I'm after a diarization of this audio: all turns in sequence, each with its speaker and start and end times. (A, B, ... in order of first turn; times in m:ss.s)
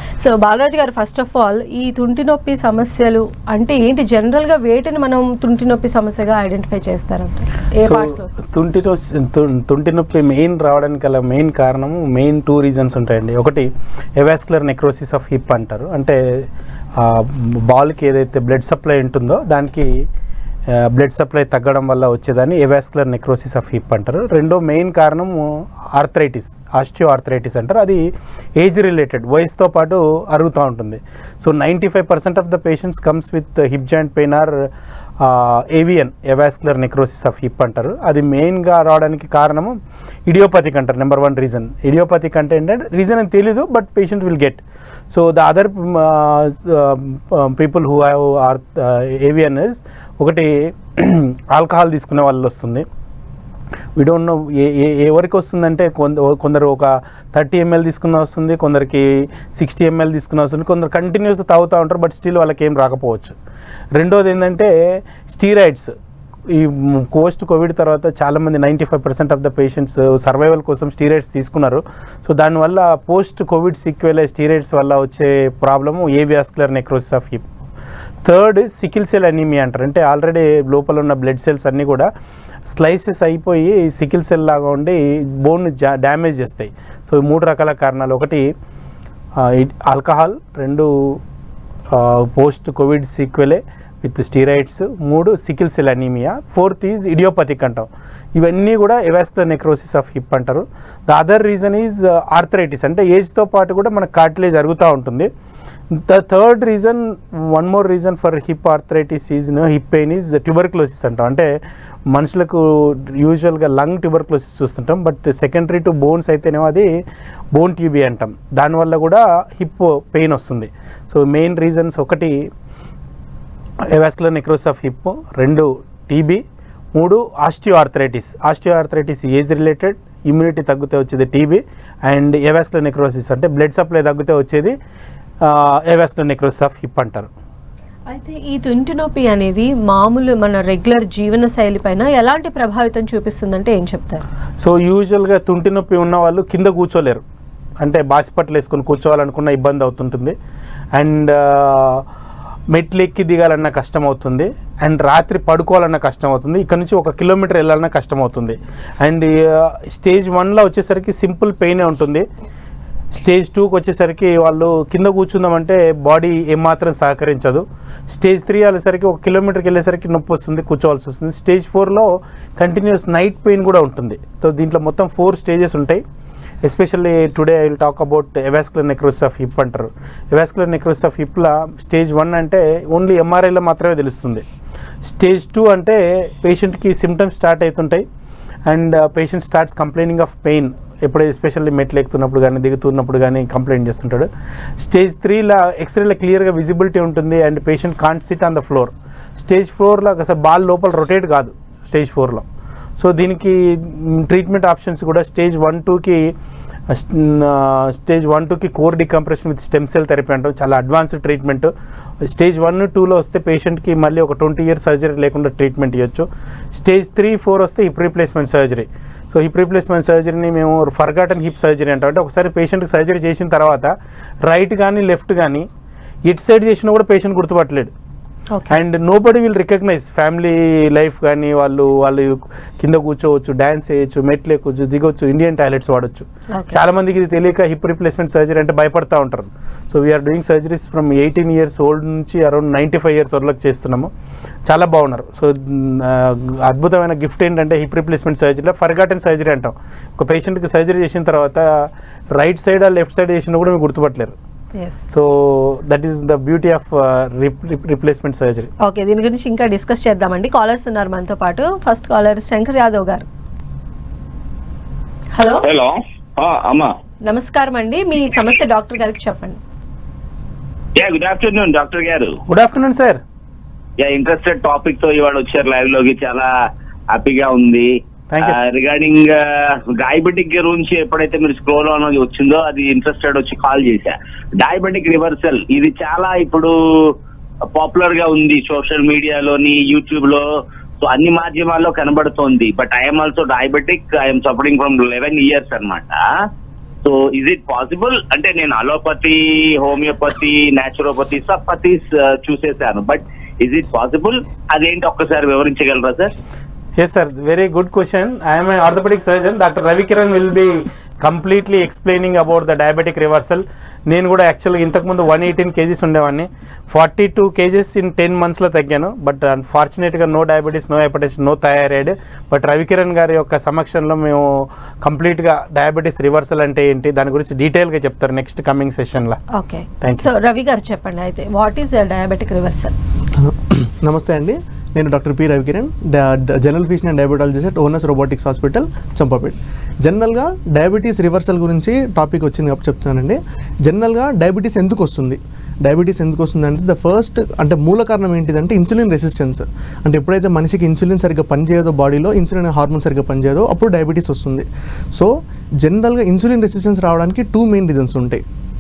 0:00.2-0:08.3 A
0:07.8-0:16.2 B
0:17.0-0:19.9 B
0:20.7-0:28.0 B
0:28.6-0:34.5 B
0:35.2-0:39.8 B
0:40.3-0:52.9 B
0:54.0-1:03.4 B
1:04.0-1:04.7 B
1:05.3-1:05.9 B
1:06.5-1:17.5 B
1:18.2-1:22.1 B
1:22.7-1:28.5 B
1:29.4-1:31.2 B
1:31.9-1:45.3 B
1:45.9-1:51.5 B
1:52.1-1:56.9 B
1:57.5-2:02.4 B
2:03.9-2:06.4 B
2:07.0-2:14.8 B
2:15.4-2:17.3 B
2:18.1-2:24.2 A
2:24.6-2:27.2 B
2:27.8-2:30.4 B
2:30.9-2:32.0 B
2:32.7-2:42.2 B
2:43.1-2:56.0 B
2:56.6-3:04.4 B
3:05.0-3:08.0 B
3:08.7-3:14.3 B
3:14.8-3:22.4 B
3:23.0-3:26.3 B
3:26.9-3:31.7 B
3:32.2-3:43.9 B
3:44.5-3:45.7 B
3:46.3-3:47.9 B
3:48.5-3:48.8 A
3:48.7-4:04.1 B
3:56.5-3:56.8 A
4:04.7-4:14.4 B
4:14.8-4:15.0 A
4:15.1-4:18.7 B
4:18.8-4:23.3 A
4:25.4-4:25.6 A
4:25.6-4:26.9 C
4:27.3-4:29.6 A
4:31.0-4:32.4 C
4:32.5-4:33.2 B
4:34.0-4:36.5 C
4:37.1-4:47.1 C
4:38.3-4:38.6 B
4:47.7-4:50.4 C
4:51.0-4:56.2 C
4:57.0-5:06.3 C
5:07.0-5:29.4 B
5:29.5-5:32.9 A
5:30.0-5:30.3 B
5:33.4-5:58.4 D